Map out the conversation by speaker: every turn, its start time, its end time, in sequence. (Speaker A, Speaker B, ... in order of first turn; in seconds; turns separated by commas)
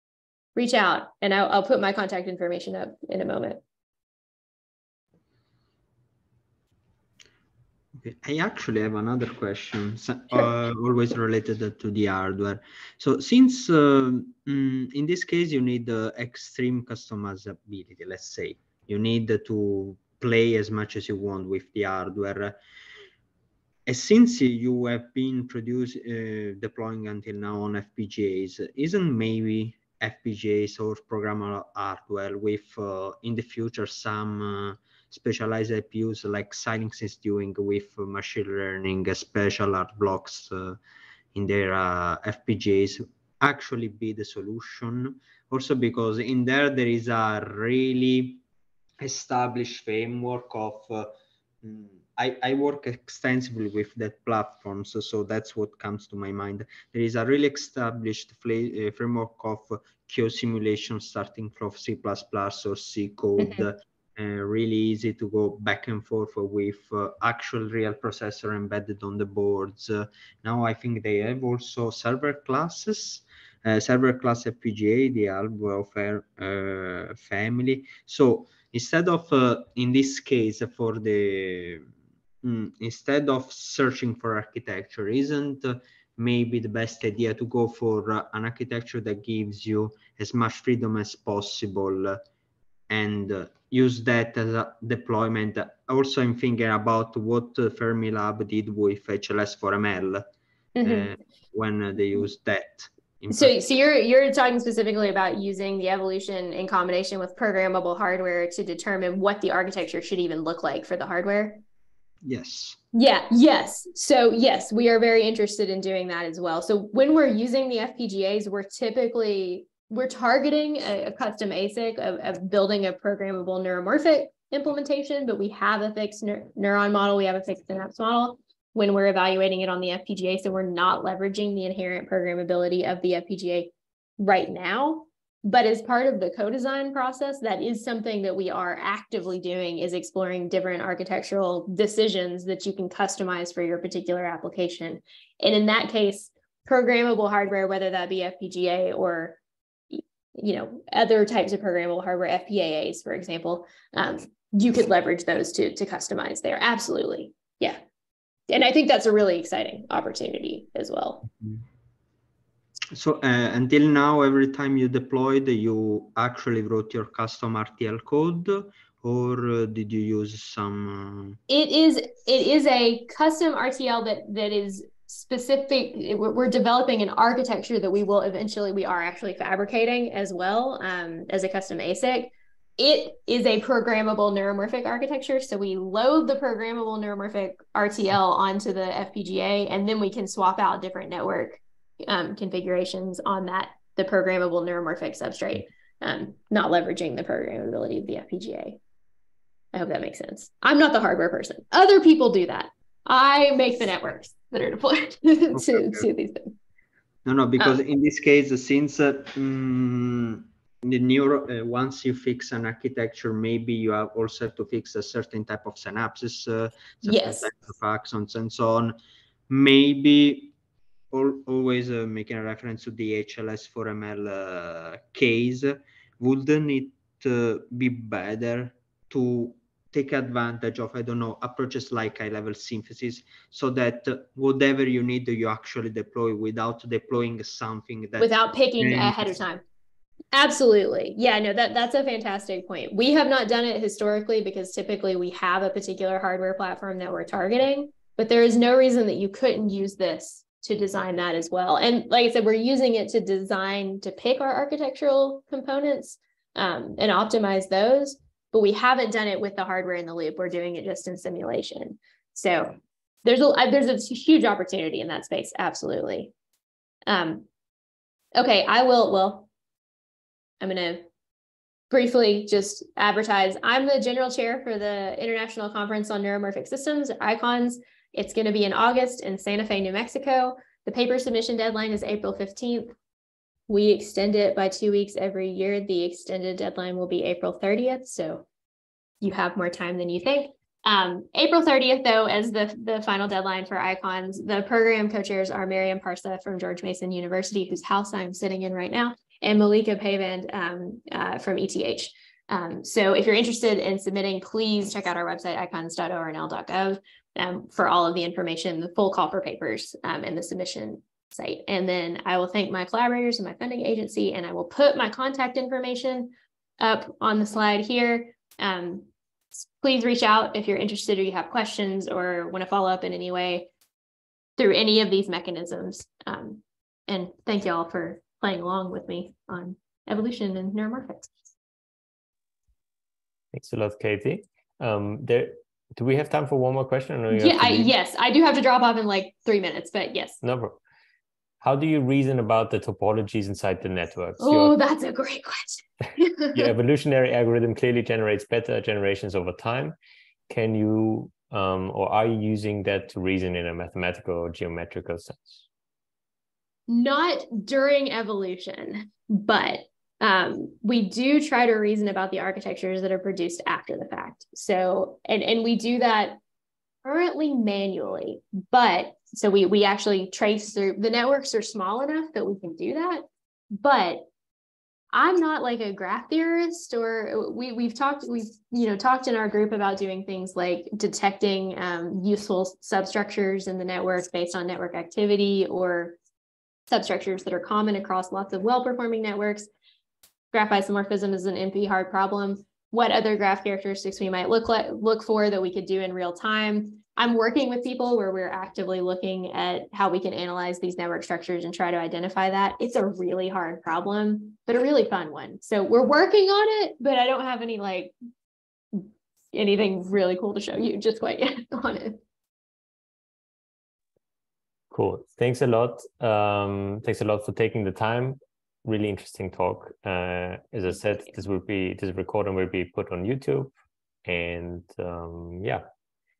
Speaker A: 0.6-3.6, Speaker B: 8.0-22.6, Speaker B: 23.9-40.8, Speaker B: 41.4-48.4, Speaker B: 49.0-51.1, Speaker B: 51.6-81.9, Speaker A: 63.4-63.6, Speaker B: 82.4-92.2, Speaker B: 92.9-100.3, Speaker A: 100.8-101.1, Speaker B: 100.8-103.6, Speaker A: 103.3-111.6, Speaker B: 112.2-112.8, Speaker A: 112.9-149.4, Speaker A: 149.9-157.8, Speaker A: 158.5-161.2, Speaker B: 162.9-171.4, Speaker A: 171.5-198.8, Speaker A: 199.7-206.6, Speaker B: 205.5-206.1, Speaker B: 207.2-218.9, Speaker A: 217.0-217.5, Speaker B: 219.5-220.5, Speaker B: 221.1-239.3, Speaker A: 238.2-239.6, Speaker A: 240.3-266.3, Speaker A: 267.1-267.5, Speaker A: 268.4-269.5, Speaker A: 270.6-271.0, Speaker A: 271.9-282.9, Speaker A: 283.7-288.5, Speaker A: 289.2-323.7, Speaker A: 324.6-331.3, Speaker C: 333.5-337.9, Speaker A: 337.3-340.4, Speaker C: 340.4-340.8, Speaker C: 341.6-344.8, Speaker A: 344.4-346.7, Speaker C: 346.5-349.9, Speaker C: 350.5-355.6, Speaker A: 356.9-366.4, Speaker A: 367.0-374.3, Speaker A: 375.1-386.2, Speaker A: 386.9-389.7, Speaker A: 390.5-408.1, Speaker A: 408.9-412.2, Speaker C: 414.9-423.7, Speaker C: 424.2-425.8